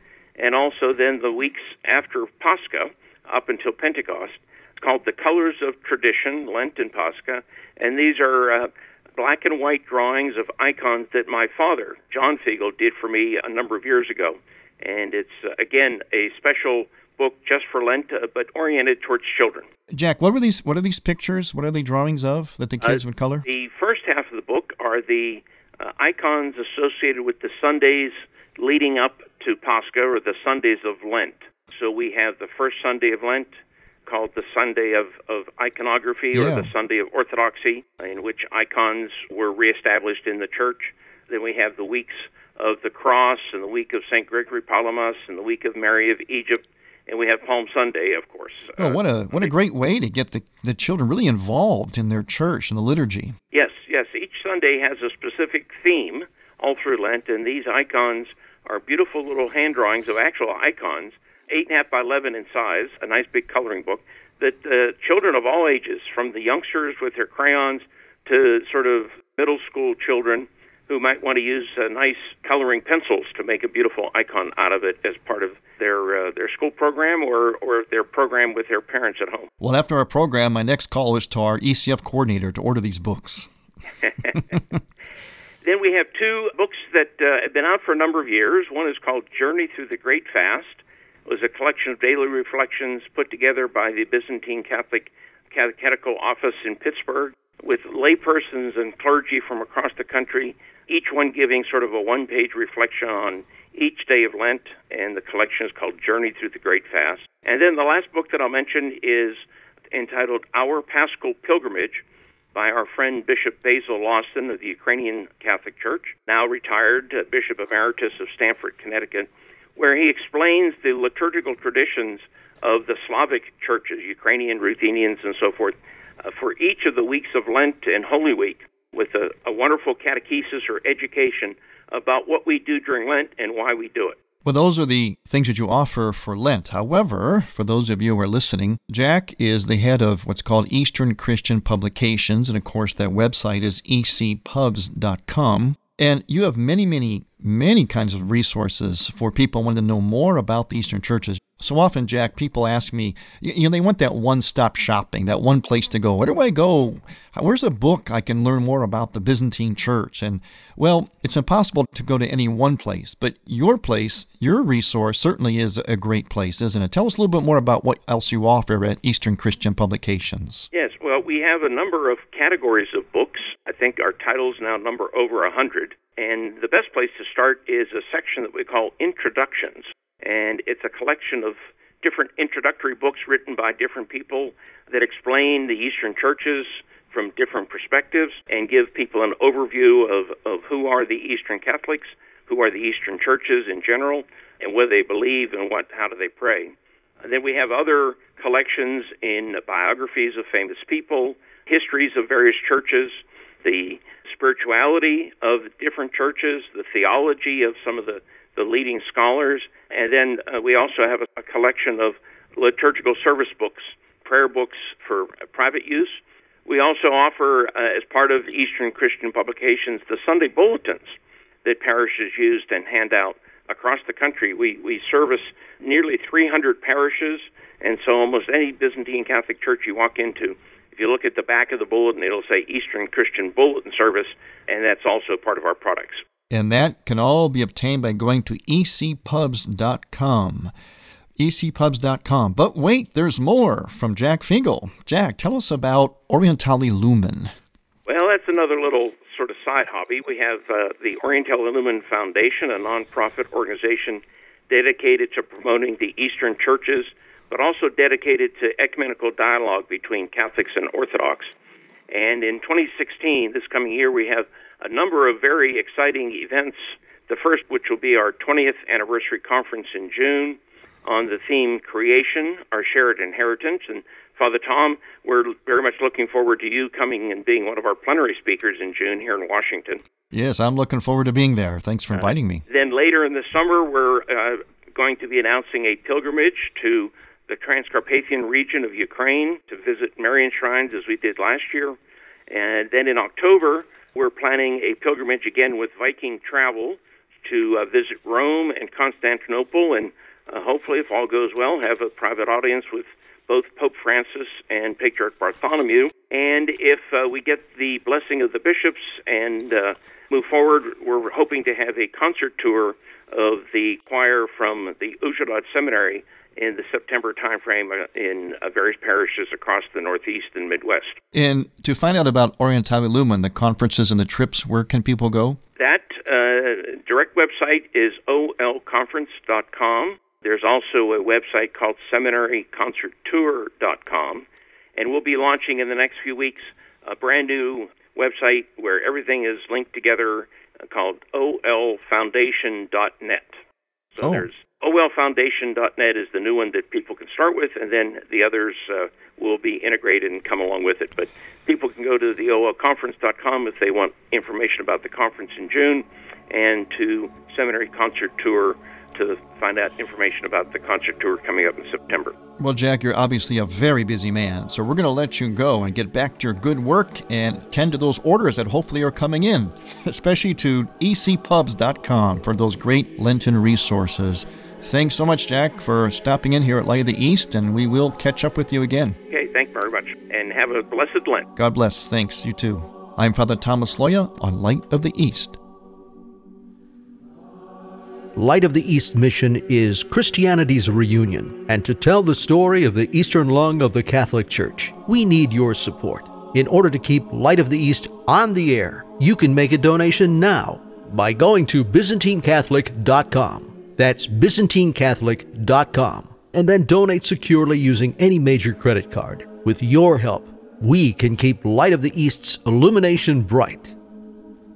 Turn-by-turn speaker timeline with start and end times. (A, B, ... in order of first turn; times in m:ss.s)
0:00.4-0:19.7 A
0:19.9-0:23.4 B
0:22.8-0:49.5 A
0:36.3-0:36.7 B
0:48.8-0:53.4 B
0:53.5-1:19.5 A
1:19.6-1:23.5 B
1:24.0-1:24.6 A
1:24.3-1:24.7 B
1:25.6-1:52.0 A
1:52.5-2:14.2 A
2:14.4-2:50.7 B
2:50.7-3:16.7 A
3:17.2-3:56.2 A
3:56.5-4:00.7 B
4:01.4-4:07.5 B
4:08.1-4:21.5 A
4:22.1-4:40.0 A
4:40.3-4:42.6 B
4:42.1-4:52.0 A
4:52.5-5:21.2 A
5:21.3-5:25.6 B
5:25.8-5:34.4 A
5:35.0-5:43.6 A
5:44.1-6:02.3 A
6:02.6-6:19.2 B
6:19.3-6:21.5 A
6:21.6-6:25.6 B
6:28.4-6:53.9 C